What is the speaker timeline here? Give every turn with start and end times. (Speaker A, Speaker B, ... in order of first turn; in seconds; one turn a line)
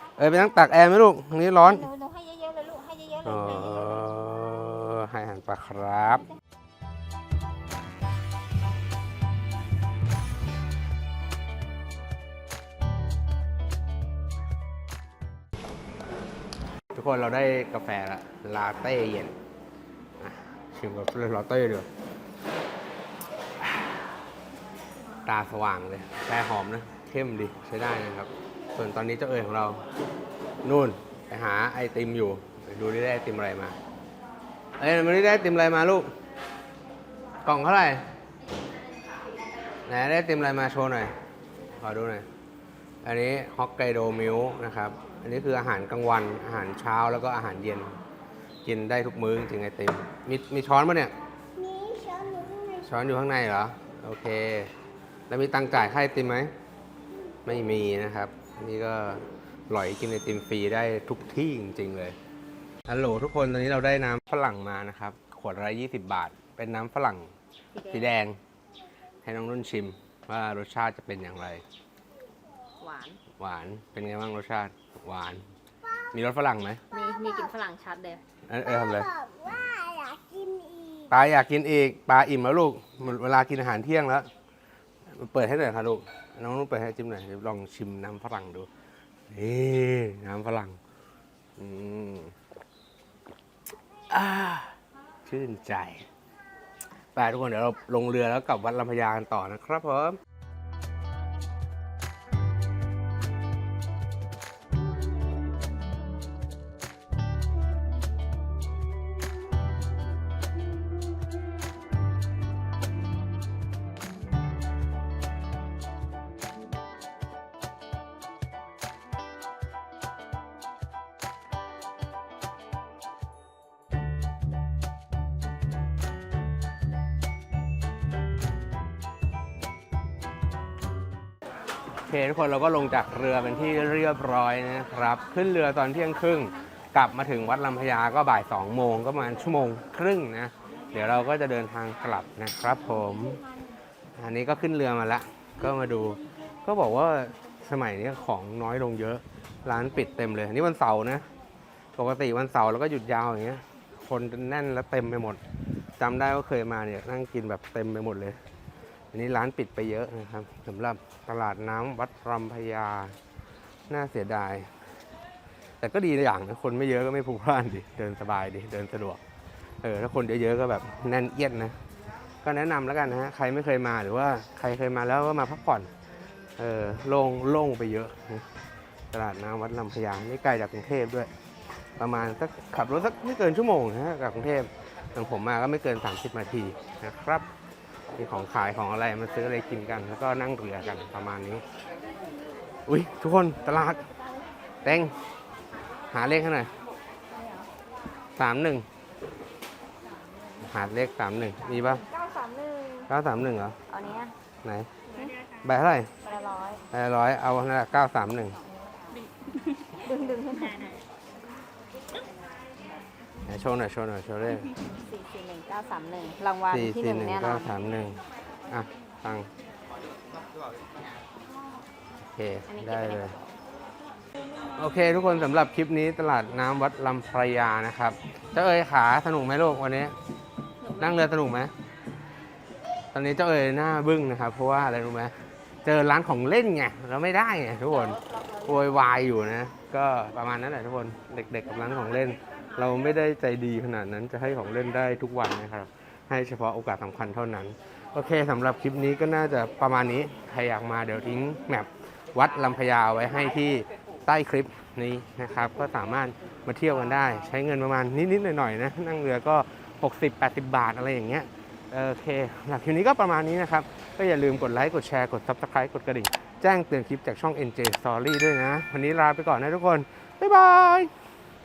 Speaker A: 0.2-1.9
Speaker B: 1.9-3.3
Speaker A: 3.2-6.2
Speaker A: 16.9-19.3
Speaker A: 20.2-21.9
Speaker A: 25.2-29.8
Speaker A: 30.6-33.8
Speaker A: 34.8-36.1
Speaker A: 37.4-38.0
Speaker A: 39.9-41.1
Speaker A: 41.8-42.3
Speaker A: 43.0-48.0
Speaker A: 48.6-51.1
Speaker C: 51.7-52.7
Speaker A: 52.6-54.7
Speaker A: 55.3-56.5
Speaker A: 57.4-62.1
Speaker A: 62.9-67.3
Speaker B: 67.7-68.2
Speaker A: 67.9-68.4
Speaker A: 69.2-71.6
Speaker B: 72.8-73.2
Speaker A: 73.4-75.4
Speaker A: 76.1-76.8
Speaker B: 76.9-78.2
Speaker A: 78.5-79.1
Speaker C: 79.5-80.9
Speaker A: 81.1-84.3
Speaker A: 85.1-88.7
Speaker A: 89.3-90.8
Speaker A: 91.6-92.3
Speaker A: 94.1-96.1
Speaker A: 97.1-100.2
Speaker A: 132.1-143.4
Speaker A: 144.2-151.2
Speaker A: 151.9-155.4
Speaker A: 156.0-158.4
Speaker A: 159.1-163.2
Speaker A: 163.9-164.7
Speaker A: 165.8-169.2
Speaker A: 169.8-171.8
Speaker A: 172.4-175.9
Speaker A: 176.6-178.4
Speaker A: 179.1-181.3
Speaker A: 182.0-187.5
Speaker A: 188.1-191.6
Speaker A: 192.8-194.1
Speaker A: 194.8-195.1
Speaker A: 196.1-196.7
Speaker A: 198.4-198.8
Speaker A: 200.6-202.0
Speaker B: 202.1-203.1
Speaker A: 203.1-203.8
Speaker B: 203.9-204.3
Speaker A: 204.6-204.9
Speaker A: 205.6-206.1
Speaker B: 206.2-206.8
Speaker A: 206.9-208.6
Speaker B: 209.2-211.0
Speaker A: 213.4-214.7
Speaker B: 214.8-217.8
Speaker A: 216.7-219.5
Speaker A: 222.3-223.3
Speaker B: 222.7-223.5
Speaker A: 224.7-230.1
Speaker A: 230.9-231.7
Speaker A: 233.1-271.1